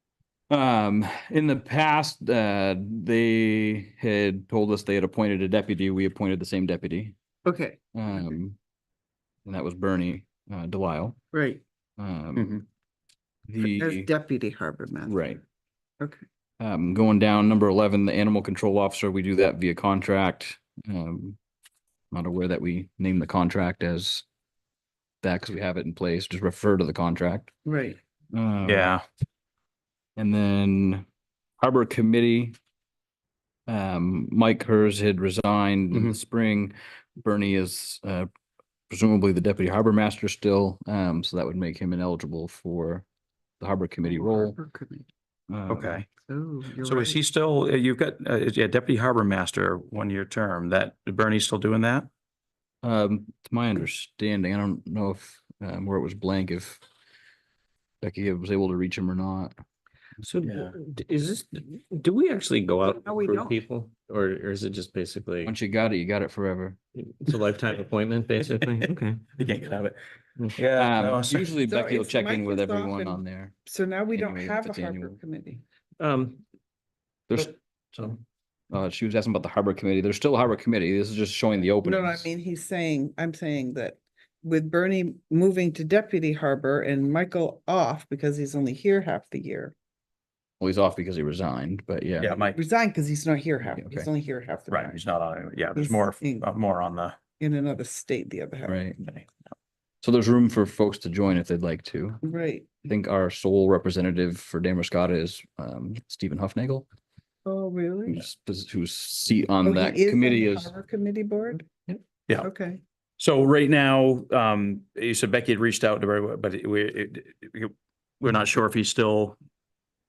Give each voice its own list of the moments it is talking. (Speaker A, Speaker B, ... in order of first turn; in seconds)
Speaker A: 0.5-7.2, 8.0-8.6, 9.4-11.2, 12.0-12.6, 13.5-14.1, 15.1-15.4, 16.6-21.4, 22.1-24.2, 25.2-27.6, 28.3-28.9, 30.2-31.1, 31.6-32.6, 33.7-38.3, 38.9-43.0, 43.6-44.6, 45.5-46.0, 52.8-56.8, 58.0-59.5, 65.4-66.8, 70.8-73.5, 74.1-75.2, 78.7-82.3, 90.6-92.3, 93.8-94.1, 98.7-99.0, 100.0-102.2, 102.8-106.8, 108.1-110.7
Speaker B: 7.5-7.8, 11.3-11.6, 13.6-15.2, 27.7-28.0, 44.0-45.1, 46.3-47.2, 62.8-63.6, 71.7-75.6, 81.8-89.7, 92.5-95.0, 95.8-96.5, 97.4-98.9, 102.2-102.8, 107.5-108.2, 109.6-111.7, 112.4-112.8
Speaker C: 12.4-12.6, 28.6-29.0, 45.7-46.1, 46.8-52.1, 60.4-60.7, 68.4-68.8, 69.4-70.0, 70.5-71.5, 92.2-92.6, 94.7-97.2, 99.0-99.3, 113.2-119.4
Speaker D: 60.2-65.5, 67.0-69.2, 76.0-76.4, 77.9-78.2